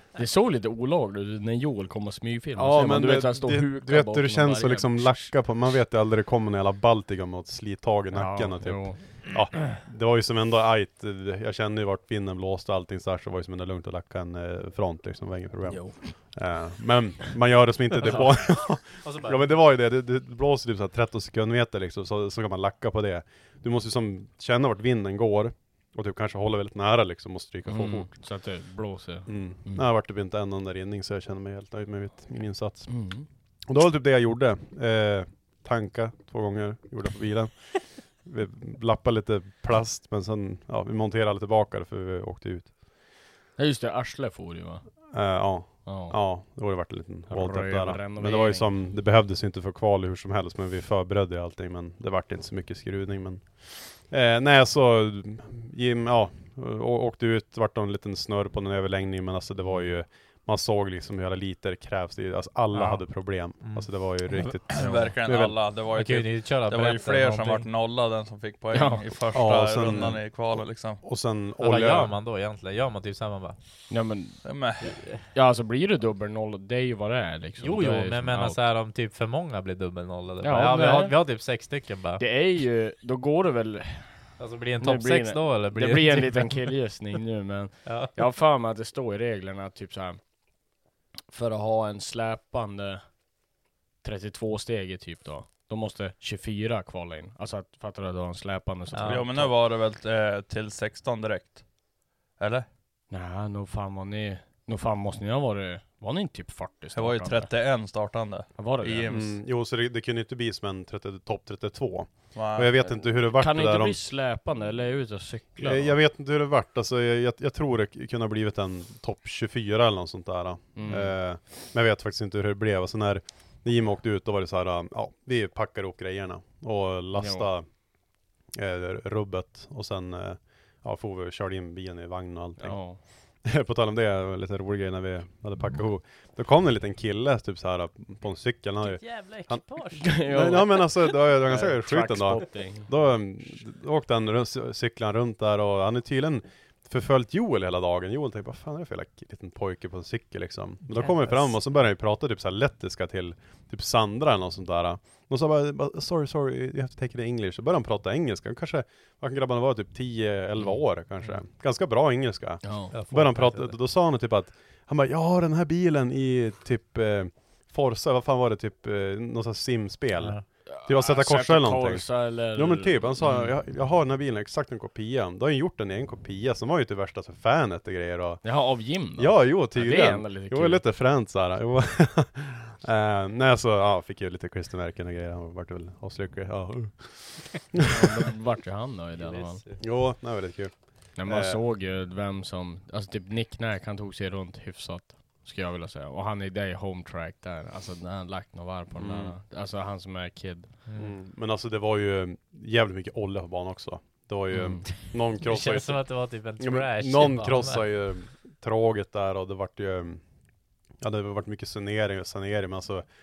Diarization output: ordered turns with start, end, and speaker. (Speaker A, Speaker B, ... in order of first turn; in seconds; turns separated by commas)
Speaker A: 0.1-5.3, Speaker B: 2.6-28.1, Speaker A: 8.1-9.0, Speaker A: 15.7-16.0, Speaker C: 18.0-18.3, Speaker C: 19.0-19.4, Speaker A: 27.6-29.9, Speaker B: 29.2-32.9, Speaker A: 32.9-33.2, Speaker B: 33.7-42.7, Speaker A: 43.6-44.8, Speaker B: 45.1-65.6, Speaker A: 45.9-46.2, Speaker A: 47.3-48.7, Speaker C: 62.7-63.0, Speaker C: 63.6-63.9, Speaker D: 64.7-71.0, Speaker C: 65.9-67.7, Speaker A: 68.7-69.0, Speaker B: 69.3-70.2, Speaker B: 71.0-72.1, Speaker C: 71.6-73.6, Speaker A: 73.9-74.4, Speaker D: 74.4-74.9, Speaker A: 75.3-78.6, Speaker C: 77.6-82.2, Speaker A: 80.4-81.2, Speaker A: 82.2-84.1, Speaker C: 84.4-86.7, Speaker A: 84.8-90.2, Speaker C: 87.8-88.1, Speaker A: 91.3-93.0, Speaker A: 94.0-99.5, Speaker C: 98.9-99.2, Speaker D: 99.0-101.6, Speaker D: 102.4-102.7, Speaker A: 103.1-107.5, Speaker D: 106.9-109.2, Speaker A: 108.6-109.3, Speaker B: 109.1-114.0, Speaker D: 112.3-112.7, Speaker A: 113.3-116.0, Speaker B: 115.6-127.7, Speaker A: 120.8-121.1, Speaker A: 127.1-127.5, Speaker B: 128.5-132.8, Speaker A: 132.6-133.0, Speaker B: 133.4-178.4, Speaker C: 138.8-140.2, Speaker A: 140.0-142.9, Speaker C: 150.9-151.4, Speaker A: 162.6-162.9, Speaker C: 162.9-163.8, Speaker C: 170.2-170.4, Speaker A: 170.7-173.5, Speaker A: 178.4-180.8, Speaker B: 179.2-188.1, Speaker A: 187.8-189.6, Speaker C: 189.2-189.8, Speaker B: 189.8-191.6, Speaker A: 191.2-200.7, Speaker B: 198.9-199.3, Speaker C: 200.8-201.1, Speaker B: 200.9-210.2, Speaker A: 204.5-204.9, Speaker C: 205.4-207.8, Speaker B: 211.0-213.0